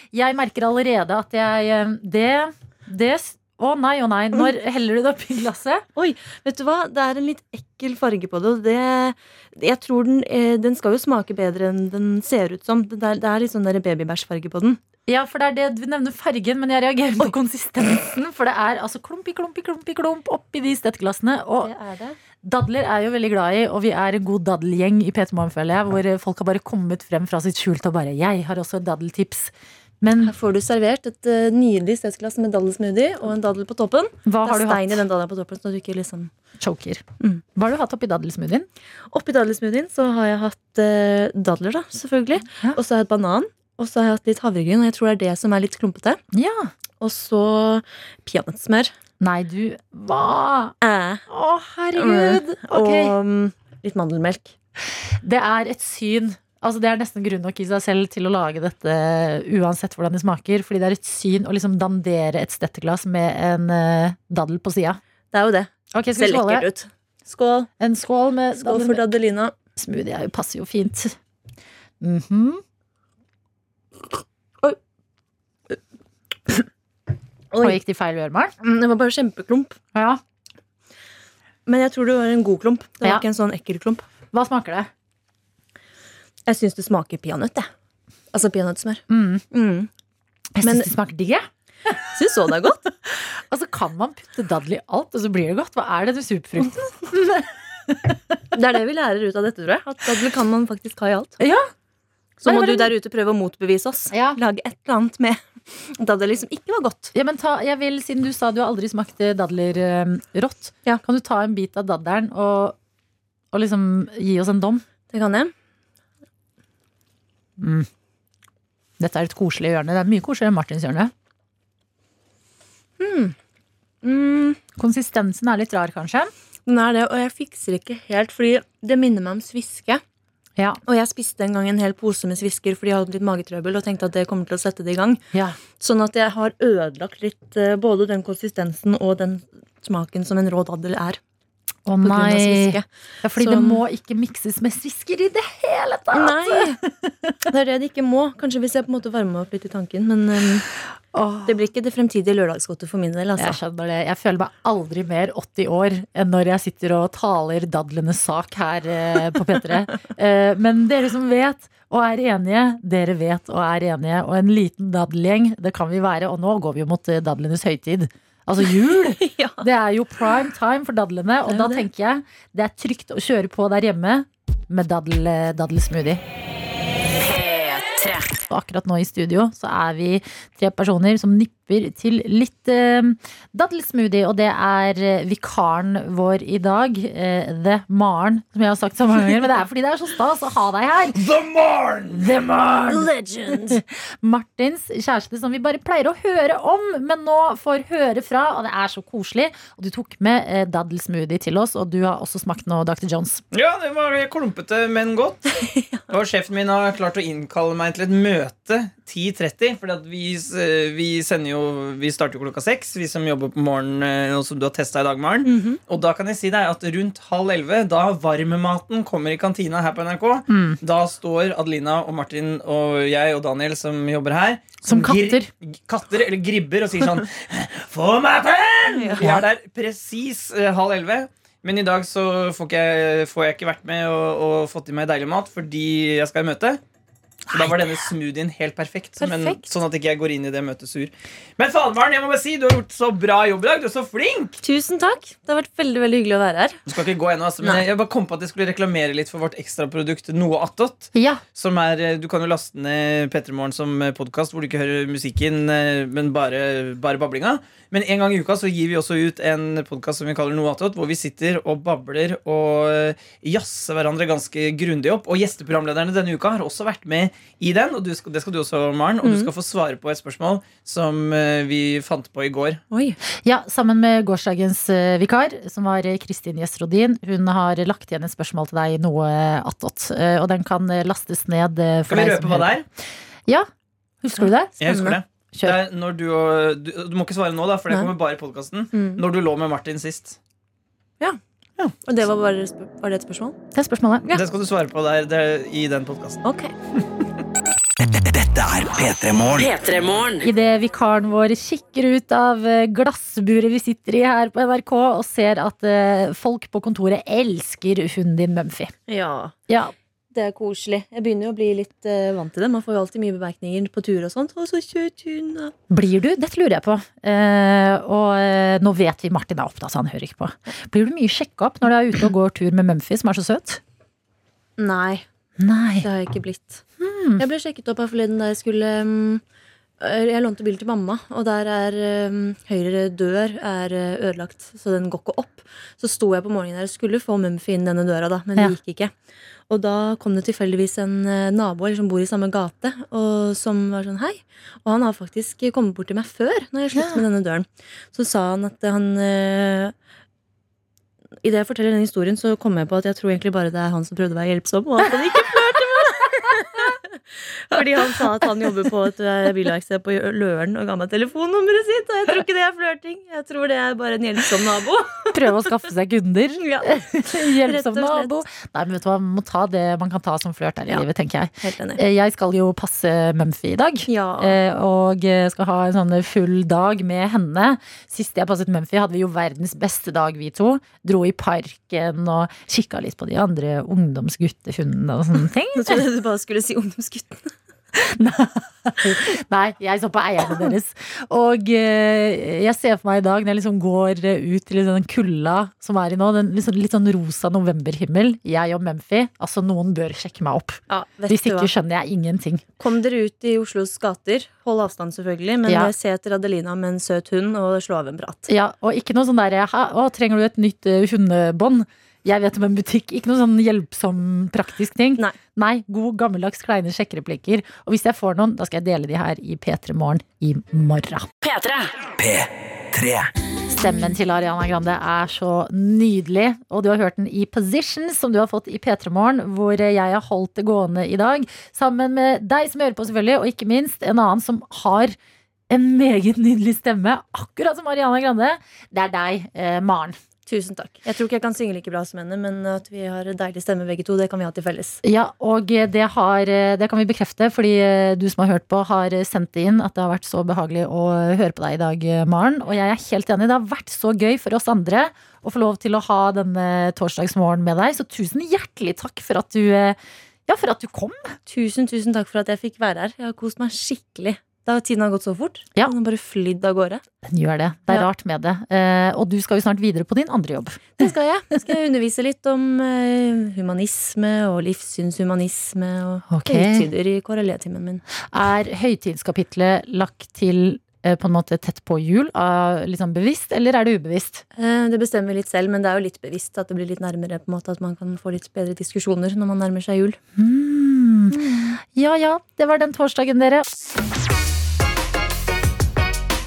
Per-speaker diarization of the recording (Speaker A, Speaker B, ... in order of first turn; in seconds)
Speaker A: 0.1-5.8, 15.1-21.7, 22.4-30.3, 34.2-35.0, 36.6-37.0, 37.5-38.7, 46.3-46.7, 49.2-50.8, 51.3-53.1, 55.2-65.0, 65.9-66.7, 67.8-69.0, 69.8-71.2, 72.0-72.6, 77.6-78.5, 79.9-80.2, 84.3-84.9, 89.1-89.4, 90.6-91.5, 93.1-98.3, 101.4-101.7, 102.5-102.9, 104.1-104.4, 107.1-112.8, 113.5-114.8, 117.6-117.9, 119.0-121.1, 124.6-126.3, 135.3-135.6, 141.8-147.3, 151.1-151.5, 153.4-176.2, 178.5-191.2, 192.1-203.4, 220.5-220.8, 224.8-225.5, 239.2-239.6, 251.1-251.4, 273.4-282.8, 284.2-285.8, 293.7-294.2, 300.4-308.9, 309.7-309.9, 315.9-323.8, 325.6-326.1, 327.0-327.4, 346.9-347.2, 365.3-386.0, 387.9-402.6, 405.6-405.9, 408.5-421.3, 423.7-435.1, 435.7-440.2, 445.0-461.4, 467.3-471.0, 476.3-476.9, 478.3-484.4, 490.4-493.6
Speaker B: 6.0-14.8, 21.6-22.2, 30.2-36.3, 39.1-46.2, 47.0-48.9, 50.8-51.2, 51.9-54.5, 65.3-67.7, 68.5-69.5, 77.5-77.8, 78.6-79.8, 81.7-84.0, 86.5-87.7, 88.3-89.9, 90.6-90.9, 92.1-92.9, 98.5-101.4, 102.4-107.1, 115.1-115.5, 123.0-123.3, 124.0-124.6, 126.7-130.0, 130.8-141.2, 142.0-143.8, 146.1-146.8, 147.4-150.7, 151.4-153.6, 169.2-169.6, 171.4-171.8, 192.9-193.8, 205.6-206.1, 215.4-215.8, 228.9-229.4, 244.6-246.8, 269.2-269.5, 272.9-273.2, 284.4-285.2, 288.9-289.2, 292.0-293.6, 296.4-296.7, 309.1-309.5, 310.3-315.7, 324.8-325.2, 326.0-326.8, 327.4-329.4, 330.0-339.1, 339.7-349.9, 351.4-365.3, 366.6-368.4, 371.6-372.0, 374.1-374.6, 385.7-387.5, 400.9-401.7, 402.8-408.5, 440.4-445.0, 461.5-467.0, 471.0-478.0, 484.5-490.2, 491.3-491.7
Speaker C: 177.2-178.3, 299.6-300.4, 421.4-422.0
Speaker D: 191.2-192.2, 203.5-205.5, 206.1-236.8, 237.5-244.6, 246.9-272.8, 282.1-282.9, 284.8-290.4, 294.3-296.4
Speaker E: 298.0-299.7, 422.1-423.3